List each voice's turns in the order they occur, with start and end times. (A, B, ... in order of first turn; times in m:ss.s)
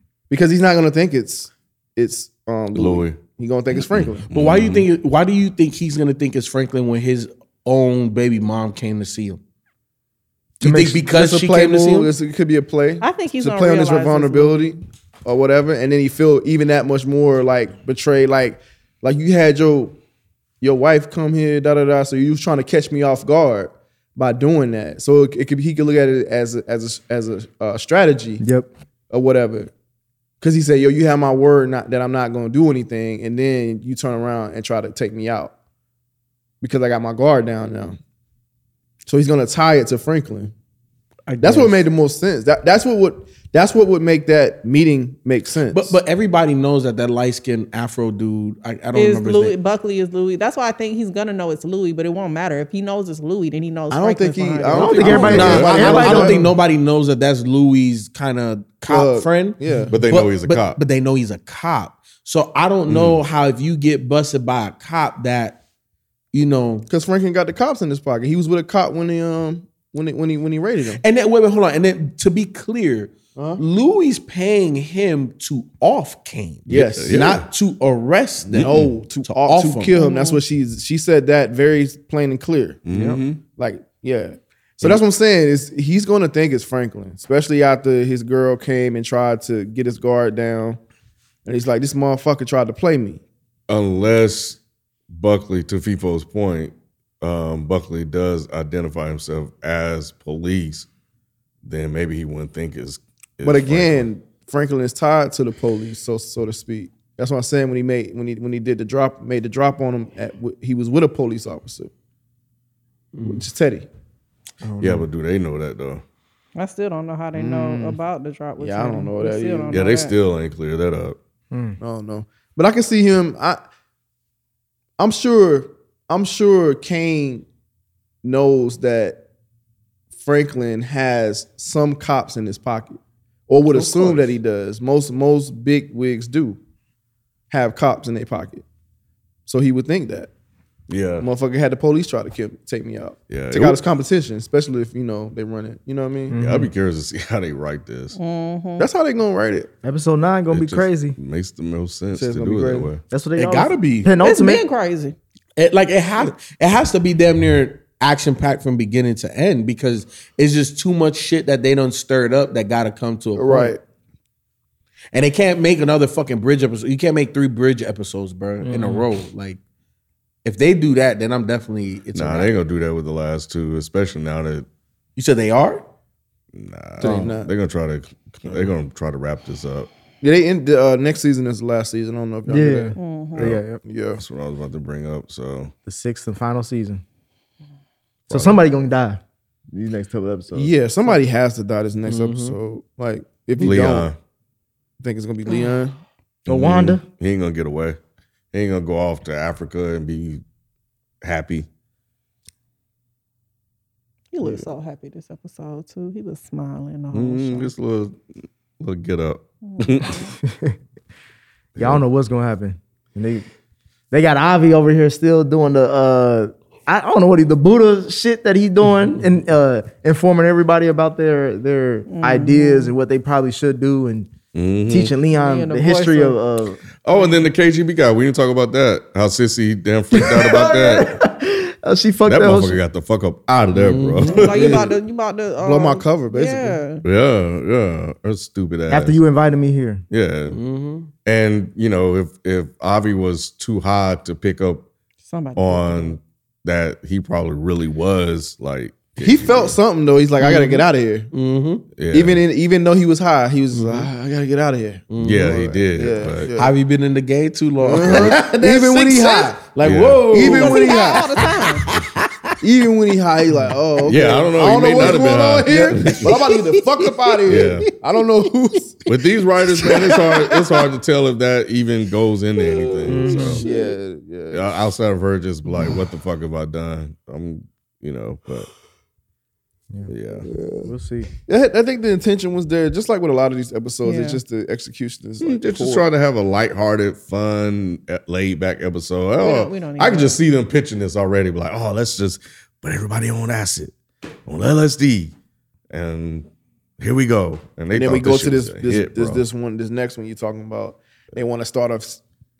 0:00.3-0:04.3 A
0:02.7-0:03.2 B
0:03.9-0:04.9 B
0:04.3-0:09.4 C
0:10.6-0:11.0 D
0:10.6-0:12.1 C
0:11.1-0:20.0 A
0:13.0-0:14.7 E
0:20.6-0:28.4 A
0:28.4-0:28.7 D
0:29.1-0:29.7 A
0:30.4-0:35.5 A
0:36.6-0:38.0 A
0:39.1-0:40.5 A
0:41.3-0:41.8 C
0:41.4-0:46.0 A
0:45.7-0:49.6 C
0:49.0-0:55.6 E
0:53.9-0:56.4 A
0:54.7-1:05.6 C
0:54.8-0:56.5 D
0:55.2-0:55.6 B
0:58.9-1:00.0 A
0:59.9-1:00.8 B
1:02.9-1:03.2 B
1:06.3-1:06.9 C
1:06.9-1:11.0 A
1:11.0-1:19.9 C
1:13.4-1:13.6 A
1:16.7-1:17.5 B
1:16.7-1:17.2 A
1:18.5-1:30.8 A
1:18.6-1:18.9 B
1:19.9-1:20.4 E
1:22.9-1:23.4 B
1:31.4-1:33.2 A
1:33.7-1:34.6 B
1:35.1-1:40.9 B
1:41.6-1:44.0 B
1:43.4-1:51.9 A
1:53.1-1:53.4 C
1:53.2-1:53.9 A
1:54.7-1:55.1 C
1:54.8-1:56.0 B
1:56.6-2:00.1 E
1:57.3-1:58.0 A
1:58.6-1:59.8 A
1:59.7-2:01.2 B
2:01.5-2:01.8 D
2:01.8-2:03.6 A
2:05.0-2:07.5 A
2:08.2-2:09.2 A
2:10.2-2:16.6 A
2:13.7-2:14.3 B
2:17.5-2:18.6 A
2:19.5-2:20.3 A
2:20.9-2:21.3 B
2:21.2-2:26.4 A
2:23.3-2:23.8 B
2:26.3-2:26.7 D
2:26.4-2:28.2 B
2:28.2-2:28.9 E
2:28.8-2:29.7 A
2:29.8-2:31.2 D
2:30.5-2:33.0 B
2:32.1-2:32.9 A
2:33.1-2:34.6 D
2:33.4-2:34.1 C
2:34.2-2:35.2 E
2:35.6-2:43.7 C
2:43.4-2:43.8 A
2:45.1-2:49.6 C
2:48.8-2:49.0 D
2:50.4-2:52.6 C
2:52.1-2:54.7 B
2:55.2-2:55.9 C
2:56.5-2:59.9 B
2:57.0-2:57.5 A
2:57.0-2:57.4 D
3:00.2-3:03.0 A
3:02.5-3:03.8 D
3:03.0-3:03.5 E
3:03.4-3:05.7 B
3:03.8-3:04.2 A
3:05.9-3:07.0 D
3:08.3-3:09.2 D
3:08.3-3:08.6 B
3:09.7-3:10.7 D
3:10.5-3:14.1 A
3:12.1-3:12.6 C
3:13.6-3:14.1 D
3:13.6-3:14.2 B
3:15.0-3:16.0 A
3:16.5-3:18.0 B
3:16.5-3:17.0 D
3:18.5-3:20.4 B
3:21.2-3:21.7 B
3:24.3-3:27.7 E
3:27.1-3:28.2 B
3:28.8-3:30.3 B
3:29.6-3:30.3 E
3:30.4-3:30.8 D
3:31.8-3:32.0 B
3:31.8-3:33.5 D
3:34.1-3:44.3 D
3:42.1-3:42.9 E
3:44.5-3:45.1 B
3:44.9-3:46.8 D
3:45.4-3:46.4 E
3:47.0-3:51.1 B
3:47.1-3:47.5 E
3:50.1-3:52.8 D
3:52.3-3:54.9 B
3:53.7-3:54.4 C
3:54.2-3:57.0 E
3:54.4-3:54.9 A
3:55.6-3:56.8 A
3:57.0-3:59.2 B
3:58.9-4:00.0 D
4:00.1-4:00.6 B
4:00.5-4:01.1 C
4:01.2-4:04.9 B
4:05.3-4:06.2 E
4:05.6-4:09.8 B
4:09.2-4:11.3 A
4:10.4-4:11.9 C
4:12.0-4:12.4 B
4:12.1-4:16.7 A
4:13.7-4:14.1 C
4:15.1-4:15.6 C
4:15.2-4:16.5 B
4:16.6-4:22.6 C
4:17.8-4:19.7 A
4:17.9-4:18.4 B
4:19.8-4:20.3 B
4:20.3-4:21.3 A
4:20.4-4:21.8 E
4:22.6-4:30.4 A
4:24.0-4:26.4 B
4:26.1-4:27.6 C
4:27.5-4:27.9 B
4:29.1-4:33.6 B
4:32.8-4:34.8 A
4:33.0-4:33.7 D
4:33.2-4:33.7 C
4:34.5-4:38.7 B
4:39.9-4:41.3 D
4:40.1-4:40.5 B
4:40.5-4:40.9 A
4:41.5-4:46.1 A
4:44.0-4:44.4 E
4:45.4-4:54.0 B
4:49.4-4:50.4 E
4:54.5-4:55.3 B
4:55.9-4:56.5 B
4:57.0-4:59.4 B
4:57.9-5:02.2 A